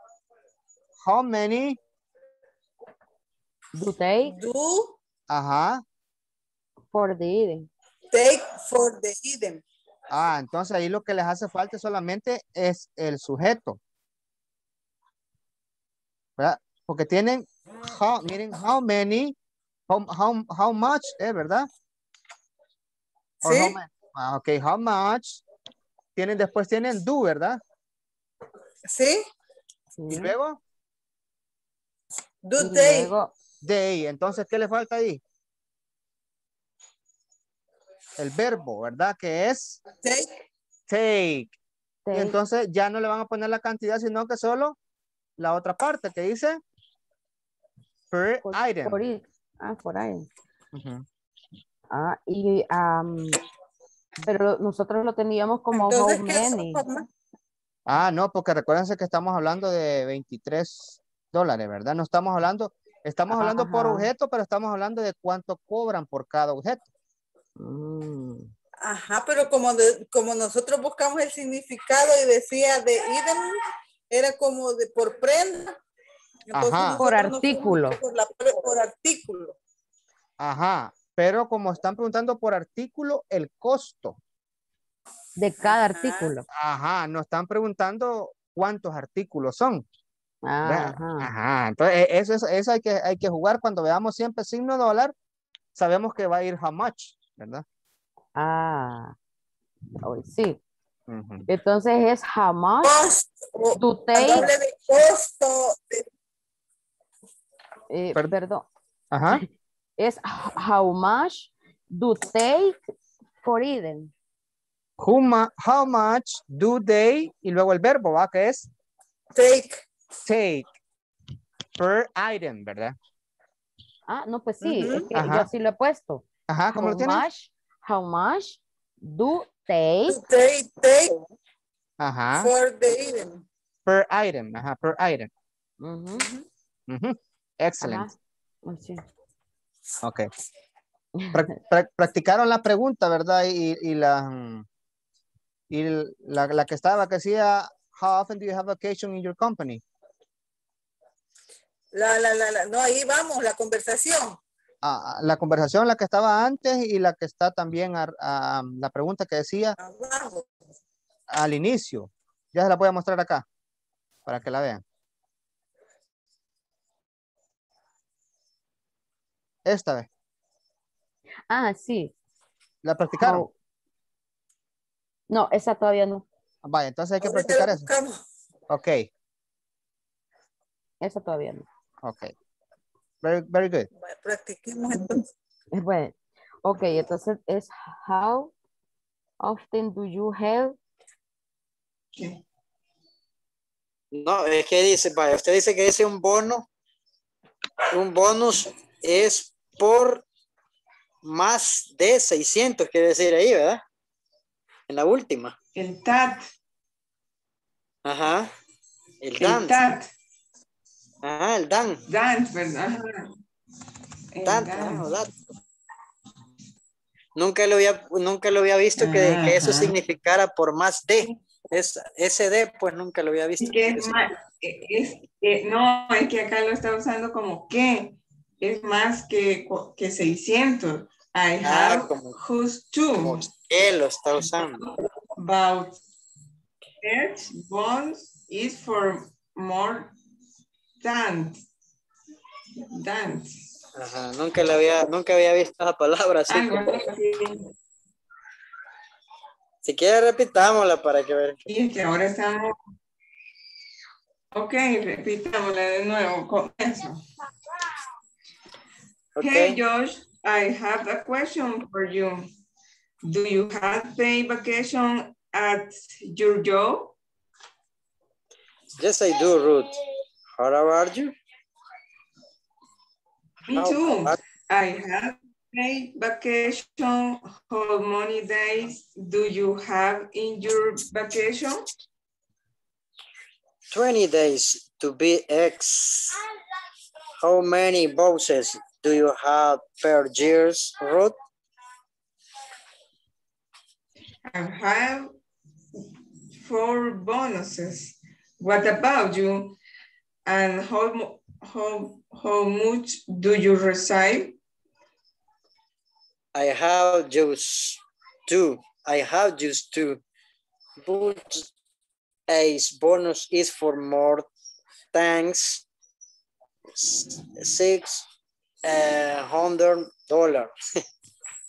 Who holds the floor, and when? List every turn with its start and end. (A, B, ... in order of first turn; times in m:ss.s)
0:01.0-0:01.8 A
0:03.8-0:04.4 B
0:04.3-0:04.9 C
0:05.3-0:05.8 A
0:06.9-0:07.7 B
0:08.1-0:09.6 C
0:10.1-0:13.8 A
0:16.4-0:19.3 A
0:19.9-0:21.7 A
0:23.4-0:25.4 A
0:23.4-0:23.8 C
0:26.2-0:27.6 A
0:28.9-0:29.2 C
0:30.0-0:30.3 B
0:30.1-0:30.6 A
0:32.4-0:33.1 C
0:32.6-0:33.3 B
0:33.6-0:35.2 A
0:38.2-0:39.8 A
0:40.0-0:40.3 C
0:40.9-0:41.5 A
0:42.1-0:42.4 B
0:42.1-0:44.8 A
0:45.4-0:46.6 A
0:48.1-0:49.0 A
0:48.4-0:50.3 B
0:50.7-0:51.0 A
0:51.9-0:53.4 B
0:54.2-0:56.8 B
0:55.7-0:57.0 C
0:57.9-1:06.9 A
1:03.3-1:04.1 B
1:07.6-1:08.5 B
1:08.9-1:13.5 C
1:14.1-1:15.8 C
1:16.5-1:19.5 C
1:16.5-1:17.0 A
1:17.0-1:18.0 B
1:20.4-1:24.2 A
1:25.4-1:26.5 B
1:25.6-1:26.3 C
1:26.5-1:29.8 A
1:30.4-1:31.3 B
1:30.6-1:35.1 A
1:35.8-1:37.6 A
1:38.4-1:39.2 B
1:40.0-1:40.6 B
1:41.1-1:41.4 A
1:41.5-1:42.9 B
1:42.8-1:46.0 C
1:43.8-1:44.5 B
1:47.9-1:48.6 B
1:49.1-1:49.4 A
1:50.0-1:52.8 B
1:53.4-1:54.1 B
1:55.0-1:58.7 A
1:59.4-1:59.8 C
2:00.2-2:00.7 A
2:01.8-2:03.0 A
2:04.1-2:06.2 B
2:04.8-2:05.0 C
2:05.2-2:05.5 A
2:06.5-2:07.3 A
2:06.8-2:10.2 B
2:10.1-2:11.2 C
2:12.0-2:12.5 A
2:12.4-2:13.4 C
2:13.9-2:15.3 A
2:15.8-2:16.3 B
2:16.9-2:18.1 A
2:17.8-2:19.0 B
2:20.0-2:20.3 A
2:21.2-2:21.6 B
2:21.3-2:24.6 A
2:25.7-2:29.8 A
2:32.0-2:34.4 C
2:34.8-2:39.7 A
2:39.8-2:40.4 C
2:41.3-2:43.4 A
2:44.3-2:44.8 A
2:49.7-2:50.1 A
2:51.5-2:52.1 B
2:52.8-2:53.4 A
2:53.2-2:53.5 B
2:55.3-2:56.2 B
2:56.6-2:57.9 A
2:57.2-2:58.1 C
2:58.7-2:59.1 A
3:01.0-3:01.7 B
3:02.0-3:02.3 A
3:03.2-3:03.9 A
3:04.0-3:05.2 C
3:05.7-3:08.5 B
3:09.4-3:10.8 B
3:14.1-3:16.6 D
3:17.9-3:20.2 D
3:21.2-3:23.8 D
3:24.9-3:25.5 D
3:25.8-3:26.5 E
3:28.0-3:28.5 D
3:29.2-3:29.8 D
3:29.4-3:30.1 E
3:31.2-3:32.0 D
3:32.1-3:33.3 E
3:34.3-3:35.1 E
3:34.4-3:35.3 D
3:37.4-3:44.2 D
3:39.0-3:39.9 E
3:43.6-3:53.4 E
3:51.6-3:52.4 D
3:53.2-3:54.9 D
3:54.6-3:56.0 E
3:57.0-4:00.1 E
4:01.0-4:01.6 E
4:02.9-4:03.6 E
4:04.0-4:06.9 D
4:06.5-4:07.7 E
4:09.8-4:11.6 D
4:11.7-4:12.8 E
4:14.5-4:17.2 E
4:19.4-4:19.8 D
4:19.4-4:22.5 E
4:23.2-4:27.1 E
4:29.0-4:30.0 D
4:30.6-4:31.3 D
4:33.7-4:41.8 E
4:33.8-4:34.4 D
4:43.9-4:46.4 D
4:47.4-4:51.4 D
4:54.5-4:55.4 E
4:56.6-4:59.8 E
5:00.5-5:04.6 E
5:06.5-5:10.2 D
5:11.0-5:11.7 D
5:12.5-5:14.5 D
5:15.1-5:15.8 D
5:17.0-5:18.3 D
5:18.8-5:20.7 D